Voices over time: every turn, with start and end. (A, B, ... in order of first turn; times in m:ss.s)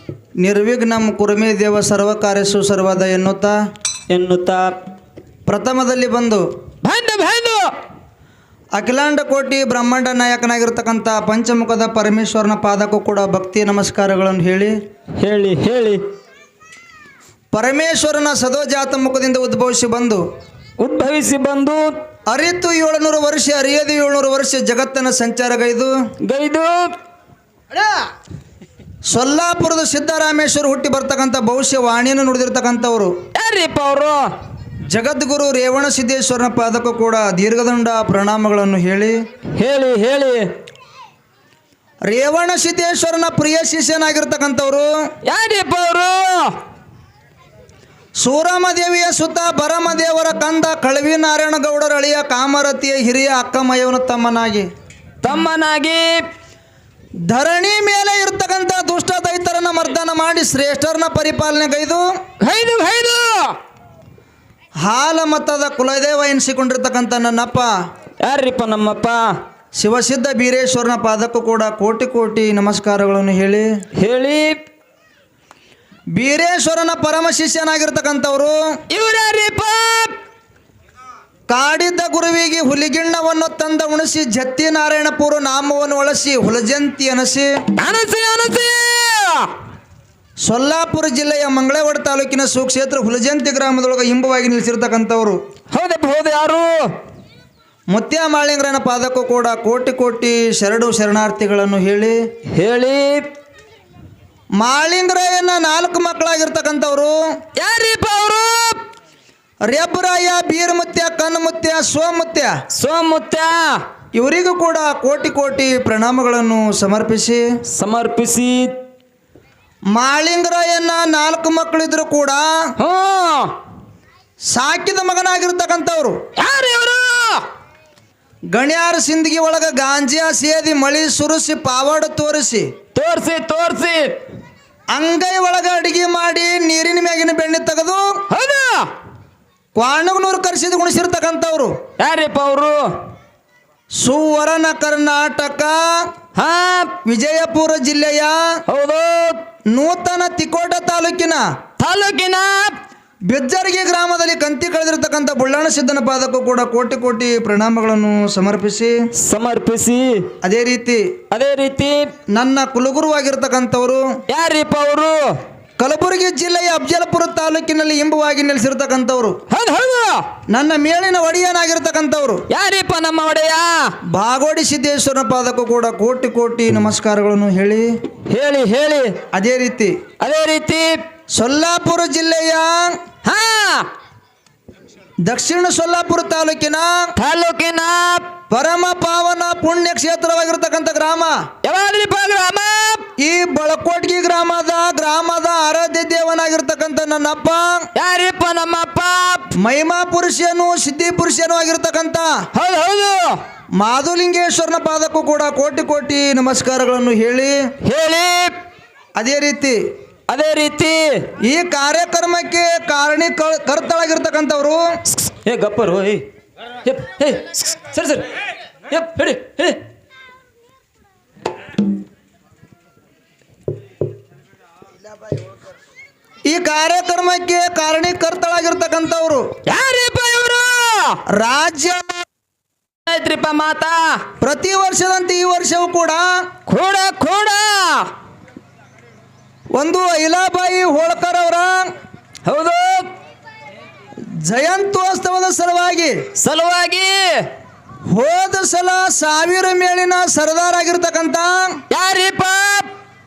0:00.4-0:03.6 A
0:04.1-0:04.7 B
0:05.5-0:06.4 A
0:06.8-0:07.7 B
0:08.8-0:14.8 A
0:15.2-0:16.0 B
0:17.5-0:20.2 A
0:20.8-0:22.0 B
0:22.3-0:25.9 A
0:26.3-0:26.9 B
0:29.1-0:33.2 A
0:33.4-0:34.2 B
0:34.9-0:39.2 A
0:39.6-0:40.5 B
0:42.1-0:44.9 A
0:45.2-0:46.6 B
0:48.2-0:54.7 A
0:55.2-0:56.2 B
0:57.3-1:02.1 A
1:02.4-1:03.6 B
1:04.8-1:07.7 A
1:08.2-1:09.2 B
1:09.8-1:13.7 A
1:14.0-1:14.6 B
1:16.2-1:18.6 A
1:18.9-1:20.2 B
1:21.5-1:27.5 A
1:27.8-1:29.5 B
1:30.4-1:35.4 A
1:35.7-1:36.8 B
1:37.9-1:42.2 A
1:42.6-1:43.3 B
1:44.6-1:47.2 A
1:47.6-1:48.8 B
1:49.7-1:52.5 A
1:52.8-1:53.8 B
1:54.2-1:57.4 A
1:57.8-1:58.7 B
1:59.9-2:02.5 A
2:02.8-2:03.5 B
2:04.5-2:06.2 A
2:06.4-2:07.4 B
2:08.5-2:12.7 A
2:12.9-2:14.1 B
2:14.9-2:18.1 A
2:18.3-2:18.9 B
2:19.8-2:21.8 A
2:22.0-2:22.8 B
2:24.0-2:25.9 A
2:26.4-2:26.9 B
2:27.0-2:28.5 A
2:28.7-2:29.4 B
2:29.7-2:31.4 A
2:31.8-2:32.8 B
2:33.3-2:38.9 A
2:39.2-2:40.3 B
2:40.4-2:41.1 A
2:41.3-2:42.1 B
2:42.3-2:44.1 A
2:44.3-2:45.2 B
2:45.8-2:49.4 A
2:49.5-2:50.2 B
2:50.5-2:52.4 A
2:52.5-2:53.9 B
2:54.1-2:57.9 A
2:58.3-2:59.2 B
2:59.3-3:00.0 A
3:00.2-3:01.0 B
3:01.3-3:02.9 A
3:03.2-3:03.9 B
3:05.2-3:07.1 A
3:07.2-3:08.3 B
3:08.5-3:11.4 A
3:11.6-3:13.0 B
3:13.2-3:17.9 A
3:18.0-3:19.5 B
3:19.6-3:22.3 A
3:22.5-3:23.4 B
3:23.8-3:27.6 A
3:27.8-3:28.6 B
3:29.2-3:29.8 A
3:30.3-3:31.3 B
3:31.4-3:34.8 A
3:35.3-3:36.2 B
3:36.8-3:38.3 B
3:38.9-3:39.8 B
3:46.4-3:49.5 A
3:49.7-3:51.2 B
3:51.3-3:52.2 A
3:53.1-3:54.2 B
3:54.4-3:56.4 A
3:56.7-3:58.1 B
3:59.8-4:01.9 A
4:02.5-4:03.1 B
4:04.4-4:06.2 A
4:06.4-4:07.5 B
4:08.1-4:11.8 A
4:11.9-4:12.9 B